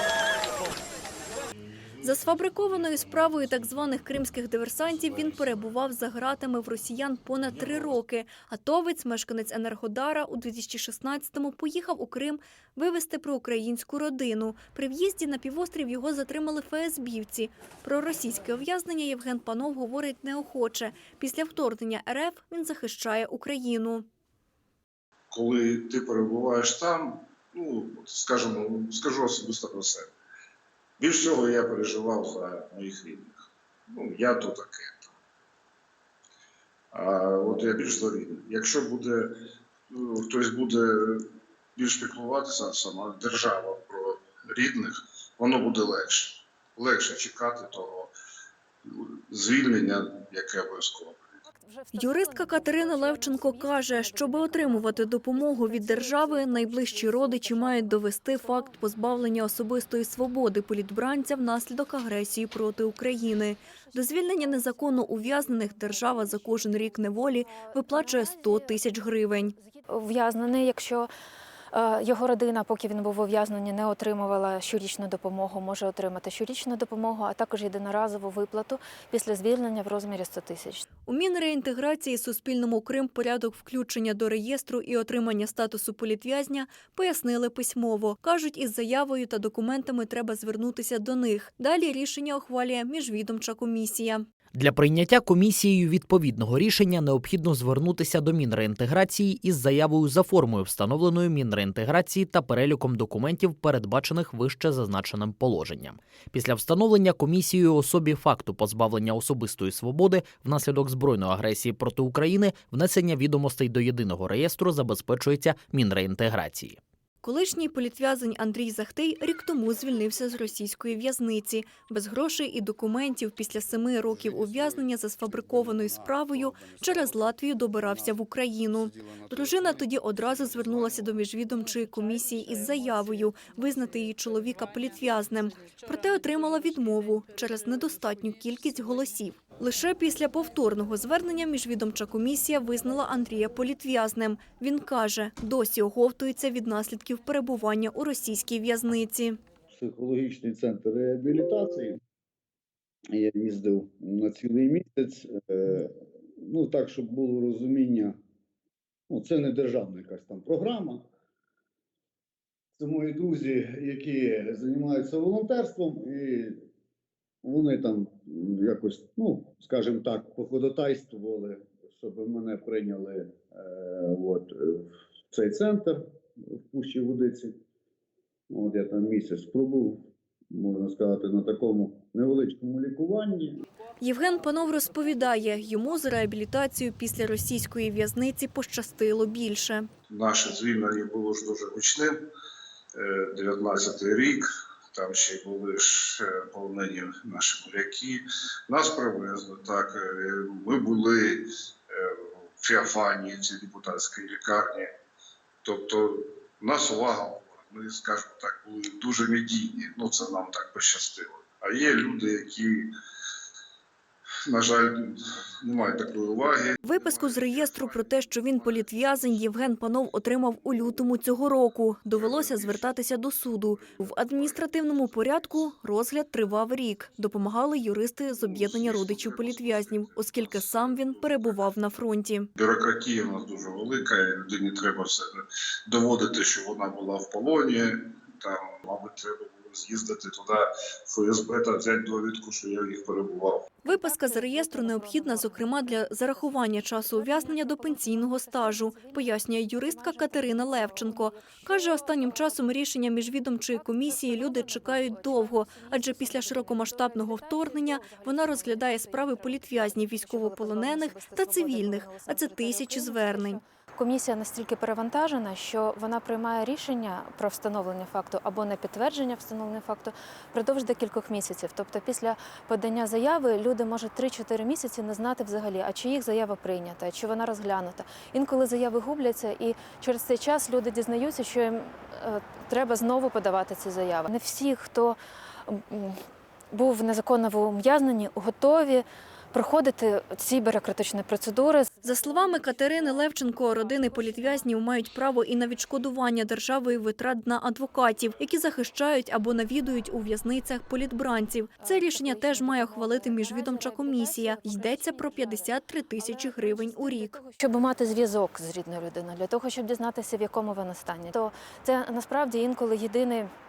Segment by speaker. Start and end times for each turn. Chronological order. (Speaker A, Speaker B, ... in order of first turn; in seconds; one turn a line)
Speaker A: 2.0-24.1
Speaker B: 25.3-30.1
Speaker B: 31.0-35.1
Speaker B: 36.9-39.3
Speaker B: 39.9-48.1
Speaker B: 48.8-51.4
Speaker C: 51.5-58.8
Speaker A: 51.9-69.5
Speaker C: 63.7-71.1
Speaker C: 71.7-80.9
Speaker A: 81.1-94.2
Speaker D: 94.5-116.8
Speaker A: 117.2-149.4
Speaker E: 149.7-152.0
Speaker E: 153.1-158.2
Speaker E: 159.1-161.1
Speaker E: 162.8-166.6
Speaker E: 167.4-177.6
Speaker E: 178.5-180.0
Speaker E: 180.5-183.6
Speaker A: 184.0-189.9
Speaker B: 190.1-192.2
Speaker B: 192.9-204.9
Speaker B: 205.6-212.9
Speaker B: 214.5-219.7
Speaker A: 216.8-232.5
Speaker B: 222.1-223.0
Speaker B: 223.7-225.2
Speaker B: 228.3-231.8
Speaker B: 232.6-243.7
Speaker C: 243.8-252.6
Speaker A: 243.8-263.6
Speaker C: 253.7-286.2
Speaker C: 286.7-294.8
Speaker A: 292.0-307.4
Speaker C: 301.8-313.5